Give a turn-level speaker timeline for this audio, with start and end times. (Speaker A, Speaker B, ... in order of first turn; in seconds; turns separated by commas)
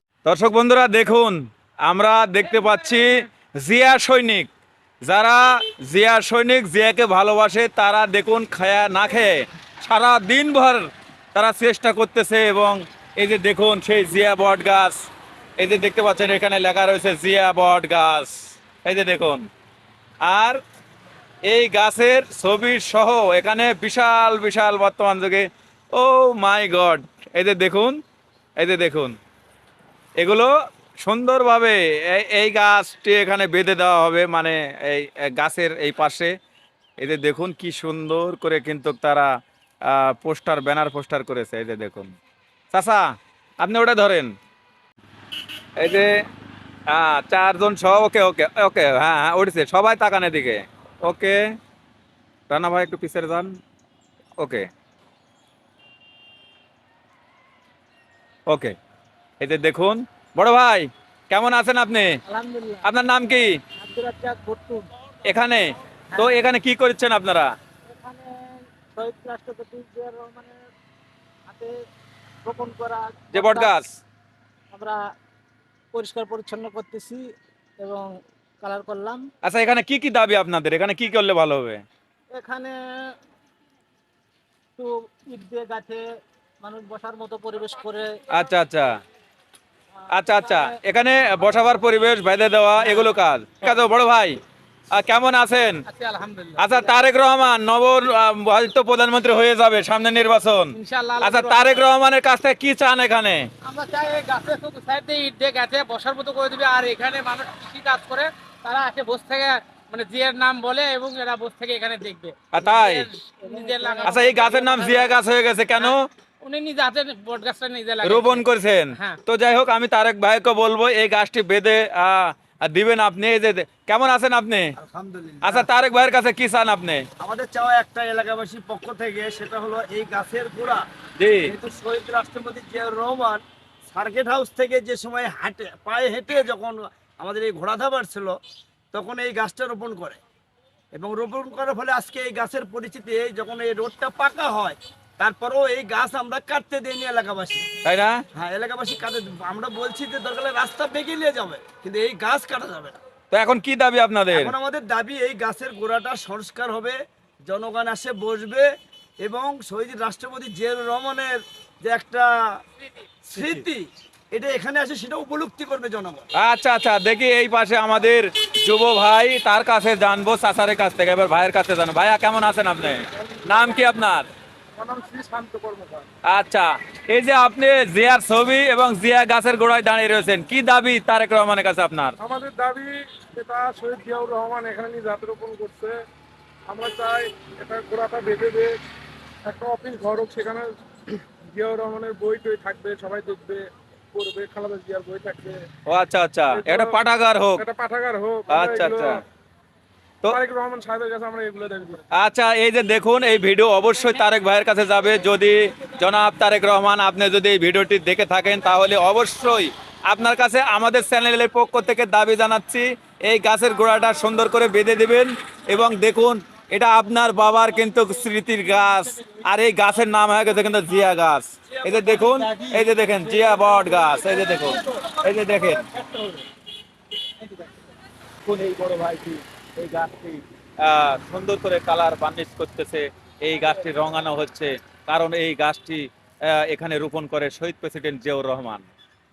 Speaker A: 0.2-4.5, Speaker A: 5.0-15.0, Speaker A: 15.6-19.5, Speaker A: 20.2-20.6, Speaker A: 21.4-28.0, Speaker A: 28.6-29.2, Speaker A: 30.2-36.4, Speaker A: 37.0-39.3, Speaker A: 39.9-42.1, Speaker A: 42.7-43.0, Speaker A: 43.6-44.3, Speaker A: 45.8-46.1, Speaker A: 46.9-51.4, Speaker A: 52.5-53.5, Speaker A: 54.4-54.7, Speaker A: 58.5-58.8, Speaker A: 59.4-62.2, Speaker B: 62.3-62.9, Speaker A: 62.8-63.6, Speaker B: 63.8-64.9, Speaker A: 65.2-67.5, Speaker B: 67.9-70.7, Speaker B: 71.5-71.7, Speaker B: 72.5-73.7, Speaker A: 73.3-74.0, Speaker B: 74.7-75.0, Speaker B: 75.9-77.3, Speaker B: 77.8-79.3, Speaker A: 79.4-81.8, Speaker B: 82.3-83.1, Speaker B: 84.8-86.0, Speaker B: 86.6-88.2, Speaker A: 88.3-88.9, Speaker A: 90.1-94.4, Speaker B: 90.2-90.8, Speaker A: 94.9-95.8, Speaker C: 95.9-96.6, Speaker A: 96.6-103.5, Speaker C: 100.7-101.9, Speaker C: 103.7-115.1, Speaker A: 112.5-113.1, Speaker B: 113.4-114.8, Speaker A: 114.0-116.0, Speaker C: 115.8-119.2, Speaker A: 118.0-124.7, Speaker D: 124.8-125.7, Speaker A: 125.4-127.0, Speaker D: 127.2-130.8, Speaker A: 131.2-131.5, Speaker D: 131.4-138.4, Speaker D: 138.9-140.2, Speaker D: 140.9-147.7, Speaker A: 147.8-148.2, Speaker D: 148.3-153.0, Speaker A: 153.3-154.5, Speaker D: 154.3-158.7, Speaker D: 159.2-162.6, Speaker D: 163.3-166.2, Speaker A: 163.3-163.7, Speaker A: 166.4-174.3, Speaker E: 174.8-176.1, Speaker A: 176.3-182.2, Speaker E: 182.2-186.0, Speaker E: 186.7-188.8, Speaker E: 189.4-190.8, Speaker E: 191.5-195.6, Speaker A: 195.9-197.7, Speaker E: 196.5-197.0, Speaker E: 197.6-199.2, Speaker A: 198.5-199.2, Speaker E: 200.3-202.0, Speaker A: 202.1-225.8, Speaker A: 228.4-238.9